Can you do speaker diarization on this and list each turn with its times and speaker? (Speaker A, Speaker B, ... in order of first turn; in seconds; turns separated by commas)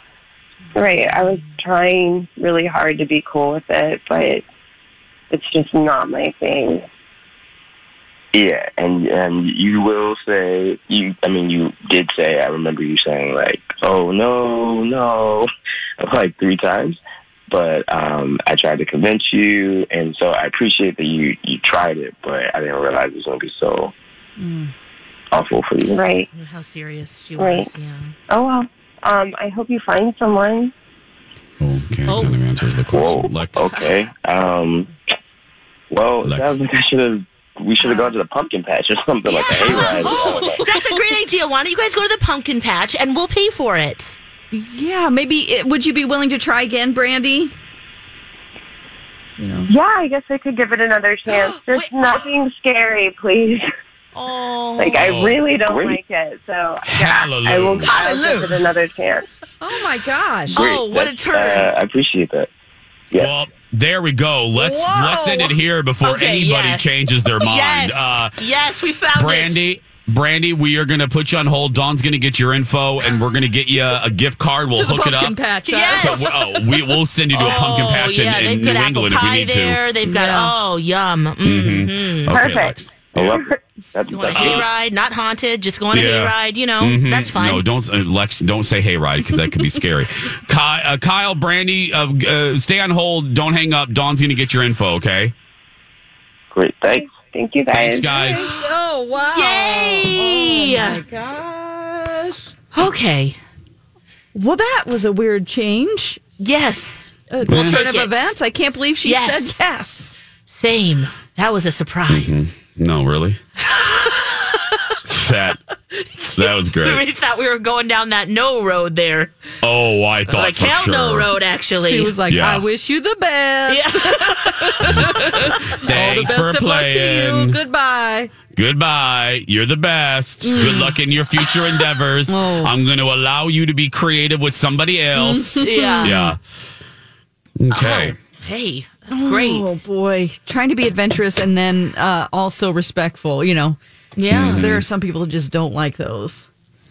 Speaker A: 0.7-4.5, Speaker A: 5.3-6.8, Speaker B: 8.3-15.5, Speaker B: 16.0-17.0, Speaker B: 17.5-23.9, Speaker C: 24.4-24.7, Speaker B: 25.3-26.0, Speaker A: 25.9-26.3, Speaker D: 26.3-28.1, Speaker A: 27.4-27.7, Speaker A: 28.3-30.7, Speaker E: 31.6-33.6, Speaker D: 32.0-32.4, Speaker B: 32.9-34.9, Speaker B: 35.9-40.6, Speaker E: 36.2-36.5, Speaker C: 37.8-38.1, Speaker D: 39.2-44.2, Speaker C: 39.6-41.1, Speaker C: 44.5-47.5, Speaker C: 49.4-49.7, Speaker A: 49.7-53.6, Speaker D: 51.3-52.2, Speaker D: 54.1-55.0, Speaker A: 54.8-59.2, Speaker E: 55.0-55.4, Speaker B: 55.6-56.0, Speaker E: 56.8-58.0, Speaker C: 58.0-58.5, Speaker C: 59.6-60.5, Speaker B: 60.5-62.5, Speaker D: 60.5-61.7, Speaker E: 63.2-68.4, Speaker C: 64.5-65.6, Speaker D: 66.0-69.6, Speaker E: 69.1-75.3, Speaker C: 74.7-76.9, Speaker D: 75.7-76.4, Speaker E: 75.9-79.8, Speaker D: 77.3-82.4, Speaker A: 80.1-80.5, Speaker E: 81.4-83.3, Speaker A: 82.3-82.8, Speaker B: 83.1-84.7, Speaker D: 84.1-87.6, Speaker E: 84.3-84.7, Speaker E: 85.9-95.3, Speaker B: 96.5-97.0, Speaker A: 97.0-98.1, Speaker E: 97.7-98.5, Speaker C: 98.1-102.5, Speaker D: 99.3-101.0, Speaker D: 102.7-103.4, Speaker C: 104.3-106.2, Speaker D: 106.4-108.3, Speaker C: 107.3-110.1, Speaker E: 107.5-107.8, Speaker D: 109.0-109.6, Speaker D: 110.5-112.5, Speaker E: 112.1-113.4, Speaker D: 113.6-115.0, Speaker E: 115.1-115.6, Speaker D: 116.0-119.3, Speaker E: 116.3-117.1, Speaker E: 119.6-121.3, Speaker D: 120.3-122.2, Speaker C: 121.7-128.3, Speaker E: 122.3-122.6, Speaker D: 123.7-125.5, Speaker E: 125.8-127.6, Speaker E: 128.5-136.4, Speaker C: 130.4-131.0, Speaker D: 130.5-130.9, Speaker C: 132.3-132.7, Speaker C: 135.1-136.1, Speaker D: 135.6-136.3, Speaker E: 137.6-138.2, Speaker D: 137.7-139.8, Speaker C: 139.1-146.5, Speaker D: 144.2-144.6, Speaker E: 144.3-144.8